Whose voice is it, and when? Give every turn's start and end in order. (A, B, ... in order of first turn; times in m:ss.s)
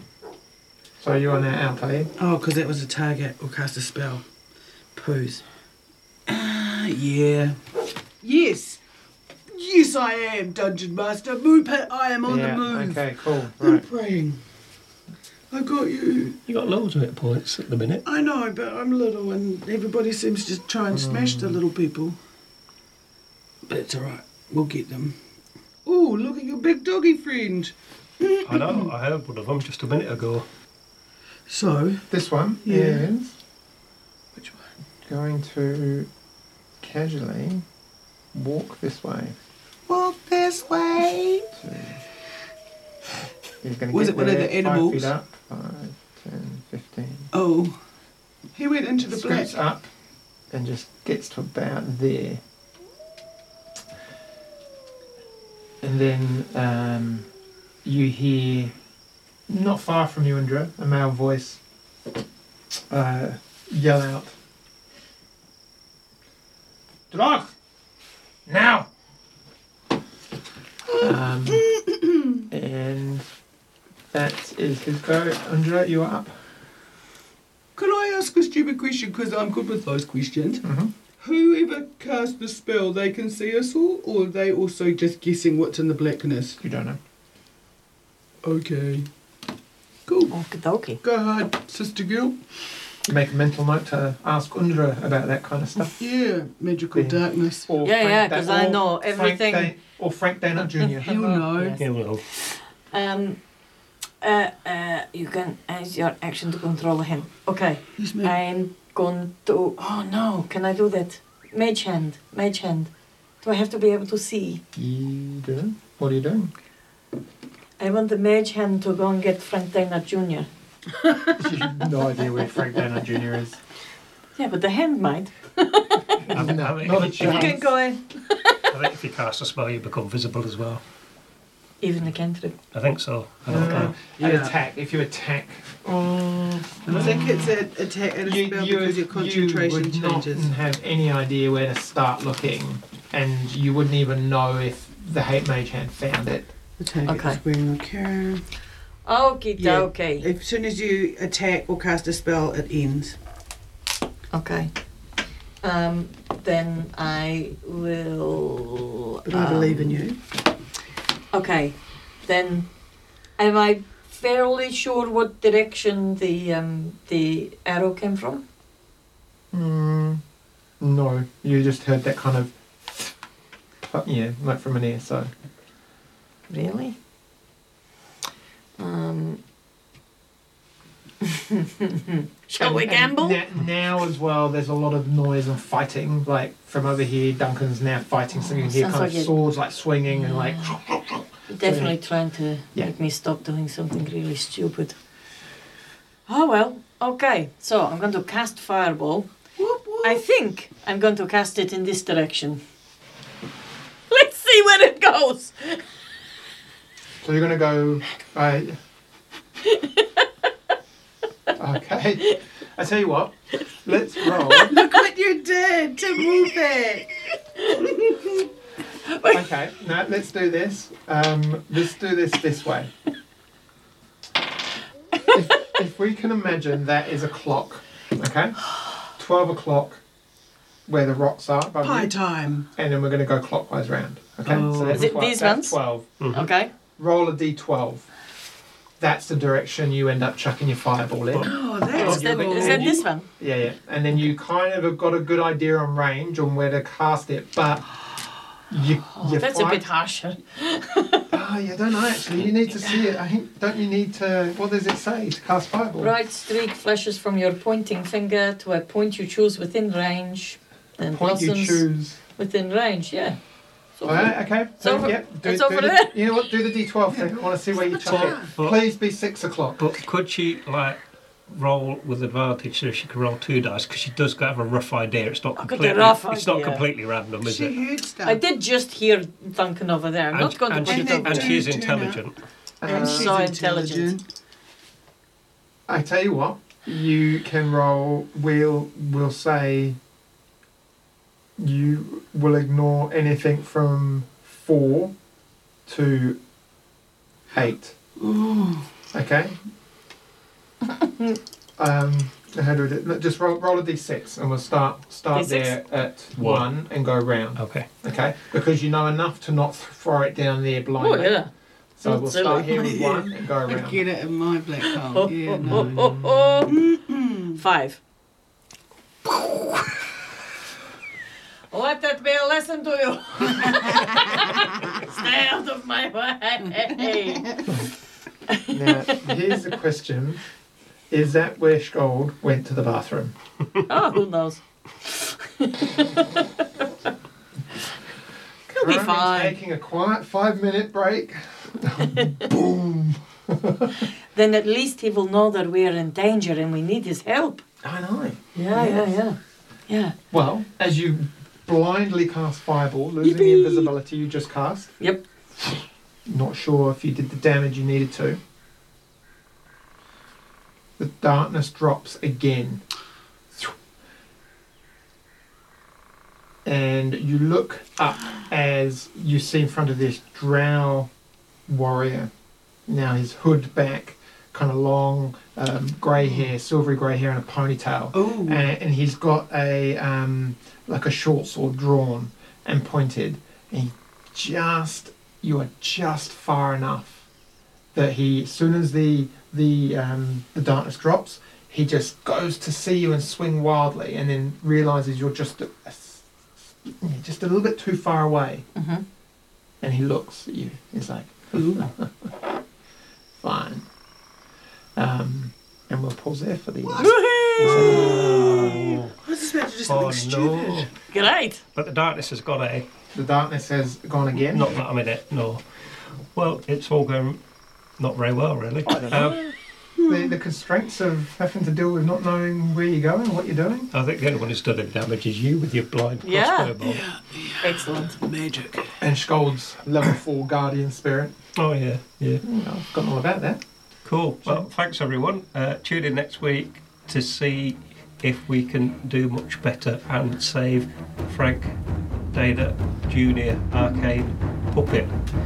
0:01.0-0:02.1 A
0:02.2-0:04.2 B
0:04.9-0:05.4 B
0:06.3-0:07.6 B
0:08.2-0:08.8 B
0:09.5-0:13.1 B
0:12.2-0:13.8 A
0:13.6-0:14.4 B
0:15.5-0:16.4 B
0:16.5-0:18.0 C
0:18.0-0:22.2 B
0:20.9-0:21.6 A
0:23.6-0:25.2 B
0:25.8-0:28.9 B
0:28.4-0:30.5 C
0:31.5-0:32.0 B
0:32.1-0:33.3 A
0:32.6-0:33.1 B
0:34.3-0:34.7 B
0:35.0-0:36.1 A
0:36.8-0:37.6 A
0:38.3-0:39.4 A
0:39.9-0:41.5 B
0:41.6-0:42.0 A
0:43.6-0:47.3 A
0:43.9-0:45.1 B
0:47.3-0:47.8 B
0:48.5-0:49.6 B
0:49.0-0:49.9 A
0:50.5-0:52.4 A
0:55.8-0:57.3 A
0:57.8-0:58.7 A
0:59.5-1:01.6 A
1:02.9-1:04.3 A
1:07.1-1:07.5 A
1:08.4-1:08.9 A
1:10.9-1:11.7 A
1:11.6-1:12.4 B
1:12.5-1:13.2 A
1:14.1-1:16.4 A
1:17.8-1:20.6 B
1:20.6-1:20.9 A
1:21.2-1:26.6 B
1:26.6-1:27.0 A
1:28.4-1:29.1 B
1:30.0-1:30.3 B
1:30.3-1:31.0 D
1:31.0-1:32.4 B
1:33.0-1:36.0 A
1:36.0-1:37.7 B
1:36.9-1:41.4 A
1:37.8-1:39.7 D
1:40.9-1:41.8 B
1:41.1-1:43.4 D
1:41.8-1:42.2 C
1:44.2-1:52.9 D
1:48.0-1:48.4 B
1:53.4-1:54.6 D
1:54.7-1:56.5 A
1:57.8-2:00.5 D
2:01.4-2:03.6 A
2:04.4-2:08.7 D
2:06.2-2:07.7 A
2:06.3-2:07.6 C
2:08.7-2:10.8 C
2:11.8-2:12.6 D
2:12.7-2:14.0 C
2:13.5-2:17.6 A
2:14.2-2:14.6 B
2:16.8-2:20.5 B
2:18.2-2:26.5 A
2:26.8-2:28.4 B
2:27.0-2:27.4 D
2:29.0-2:30.2 D
2:29.6-2:33.2 B
2:34.3-2:34.7 D
2:35.6-2:40.0 D
2:39.3-2:40.2 B
2:41.3-2:42.7 D
2:43.4-2:48.4 D
2:49.5-2:50.2 A
2:50.8-2:53.1 A
2:53.8-2:55.3 A
2:56.5-2:57.0 D
2:58.8-2:59.4 D
3:01.2-3:03.4 D
3:02.6-3:12.0 A
3:08.3-3:09.3 D
3:10.2-3:10.8 D
3:11.5-3:15.0 D
3:16.3-3:19.3 D
3:19.6-3:20.2 B
3:20.0-3:22.6 D
3:24.1-3:25.8 D
3:27.2-3:28.8 A
3:29.7-3:30.2 D
3:31.6-3:34.8 A
3:34.3-3:34.6 D
3:34.6-3:37.1 B
3:37.6-3:38.0 D
3:37.8-3:38.4 B
3:39.0-3:39.4 D
3:39.2-3:42.9 A
3:45.3-3:50.0 A
3:50.8-3:52.2 A
3:51.8-3:52.7 B
3:52.7-3:56.1 A
3:54.4-3:55.0 B
3:54.9-3:56.7 D
3:56.2-3:56.5 C
3:57.0-3:58.0 A
3:59.0-4:08.0 A
4:01.4-4:03.0 B
4:01.9-4:03.3 D
4:08.7-4:09.8 A
4:09.2-4:11.3 D
4:11.3-4:16.1 A
4:16.0-4:23.4 D
4:21.1-4:22.2 A
4:24.0-4:26.2 D
4:24.0-4:29.8 A
4:27.1-4:28.5 B
4:27.9-4:28.8 C
4:29.8-4:37.8 C
4:35.6-4:36.8 D
4:37.4-4:38.4 B
4:38.2-4:41.6 D
4:40.3-4:42.3 C
4:40.8-4:42.2 B
4:42.8-4:43.4 A
4:42.8-4:44.2 B
4:42.9-4:44.2 D
4:45.9-4:50.0 A
4:51.6-4:55.1 A
4:55.8-4:56.4 A
4:57.5-4:57.9 A
4:58.2-4:58.9 B
4:59.1-4:59.5 A
5:00.9-5:01.4 D
5:01.8-5:11.4 A
5:05.3-5:05.8 D
5:06.4-5:06.7 C
5:07.6-5:07.9 C
5:11.0-5:11.5 D
5:12.0-5:14.0 A
5:12.0-5:12.8 D
5:12.7-5:16.2 B
5:14.8-5:16.8 D
5:16.7-5:17.6 B
5:17.5-5:18.0 D
5:21.7-5:27.6 D
5:27.3-5:27.6 B
5:28.5-5:29.3 D
5:28.7-5:30.4 A
5:31.1-5:33.3 A
5:33.9-5:36.9 D
5:38.7-5:44.0 A
5:38.7-5:39.6 D
5:42.1-5:42.4 D
5:44.3-5:47.6 D
5:47.8-5:49.1 A
5:48.5-5:49.4 D
5:49.9-5:50.1 D
5:50.3-5:54.9 A
5:53.2-5:53.9 D
5:56.2-5:58.4 A
6:01.0-6:02.8 A
6:06.6-6:11.1 A
6:11.7-6:12.3 A
6:12.9-6:27.2 A
6:18.1-6:18.6 B
6:27.9-6:38.6 A
6:38.7-6:39.0 D
6:39.8-6:42.3 A
6:41.6-6:41.8 B
6:43.4-6:43.8 A
6:45.0-6:48.8 A
6:46.9-6:50.9 B
6:47.0-6:48.0 D
6:47.8-6:49.1 C
6:49.8-6:50.9 C
6:51.1-6:51.6 D
6:51.7-6:52.8 C
6:53.1-6:54.7 A
6:54.3-6:55.6 C
6:56.3-6:57.4 C
6:58.0-6:59.4 C
6:58.8-6:59.5 A
7:00.0-7:00.3 B
7:00.1-7:03.9 A
7:03.9-7:07.0 C
7:06.2-7:06.7 D
7:06.8-7:09.0 B
7:07.6-7:08.2 D
7:09.0-7:11.4 A
7:11.6-7:12.4 C
7:12.4-7:13.6 A
7:14.0-7:21.8 C
7:14.4-7:14.7 A
7:22.3-7:25.1 C